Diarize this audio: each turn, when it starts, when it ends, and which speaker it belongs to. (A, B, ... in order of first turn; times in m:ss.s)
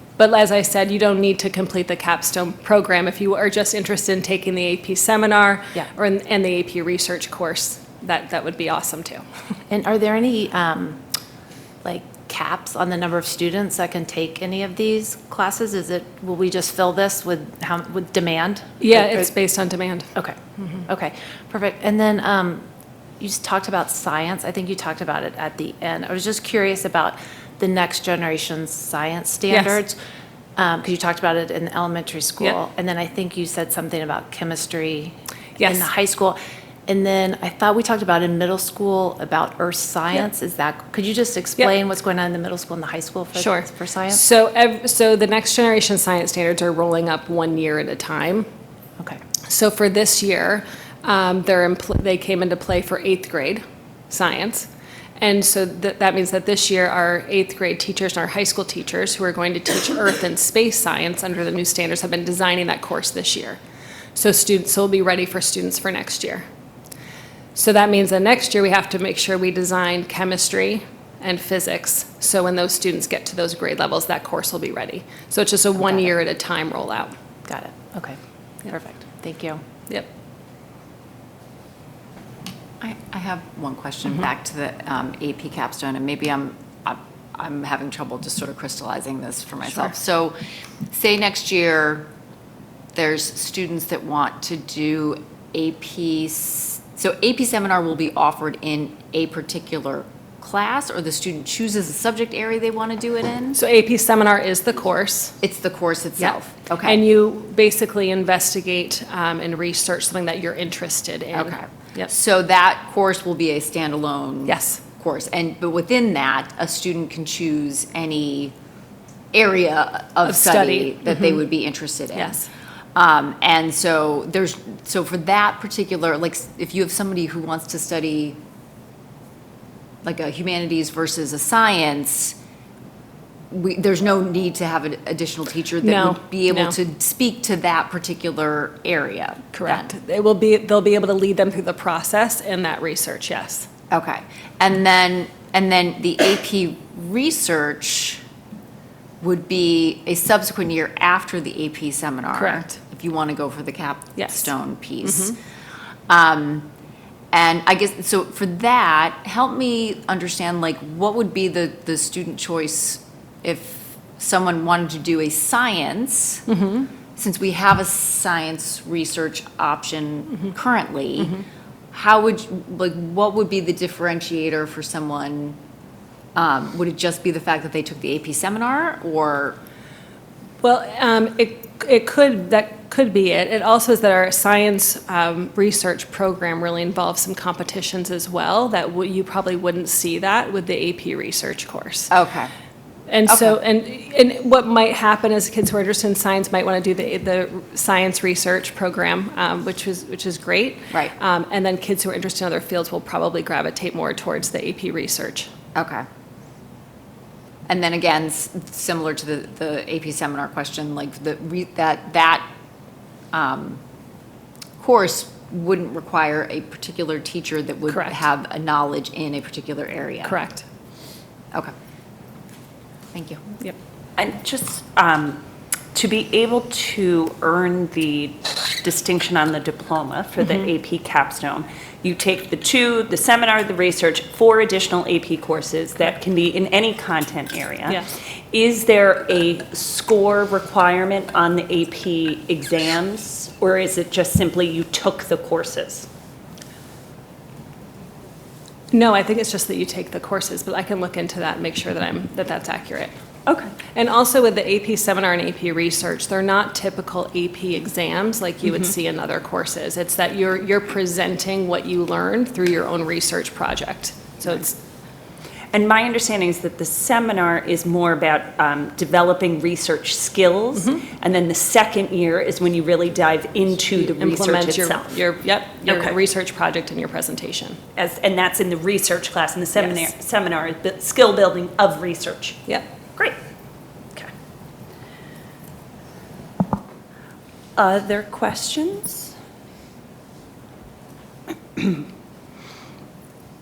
0:00.2-0:09.2 A
0:09.7-0:11.0 B
0:11.8-0:19.2 B
0:18.8-0:20.1 A
0:20.2-0:22.6 B
0:23.2-0:30.0 B
0:29.5-0:29.8 A
0:30.6-0:44.2 B
0:35.6-0:35.9 A
0:43.4-0:48.5 A
0:49.5-1:03.6 A
1:04.2-1:06.4 A
1:07.6-1:17.1 A
1:17.5-1:19.6 B
1:22.8-1:30.4 C
1:30.9-1:32.1 C
1:32.9-1:43.6 C
1:43.6-1:45.4 A
1:45.4-1:47.0 C
1:46.2-1:52.1 A
1:51.3-1:58.5 C
1:54.5-1:54.8 A
1:59.3-2:02.4 C
2:00.2-2:01.4 A
2:02.2-2:02.5 A
2:03.0-2:08.4 C
2:10.0-2:12.4 C
2:13.5-2:19.9 C
2:15.8-2:16.8 A
2:19.5-2:23.7 A
2:23.9-2:28.2 C
2:29.2-2:35.4 C
2:32.4-2:32.7 A
2:34.2-2:34.5 A
2:35.1-2:35.4 A
2:36.1-2:36.7 C
2:37.3-2:46.5 C
2:46.5-2:46.9 A
2:47.2-2:51.4 C
2:51.9-2:55.6 C
2:56.4-2:59.6 C
3:00.6-3:12.1 A
3:12.1-3:12.5 C
3:13.1-3:25.5 A
3:13.3-3:13.6 C
3:25.8-3:26.0 C
3:27.7-3:32.5 C
3:33.3-3:33.8 C
3:34.8-3:40.4 C
3:37.9-3:38.2 A
3:40.2-3:40.6 A
3:43.1-3:43.5 C
3:44.2-3:45.4 D
3:45.9-4:06.1 D
4:08.9-4:13.1 A
4:13.5-4:13.8 D
4:13.9-4:24.8 A
4:25.7-4:35.2 D
4:30.8-4:31.0 A
4:34.0-4:37.8 A
4:35.9-4:36.2 D
4:38.0-4:42.6 D
4:39.8-4:40.1 A
4:47.8-4:49.3 D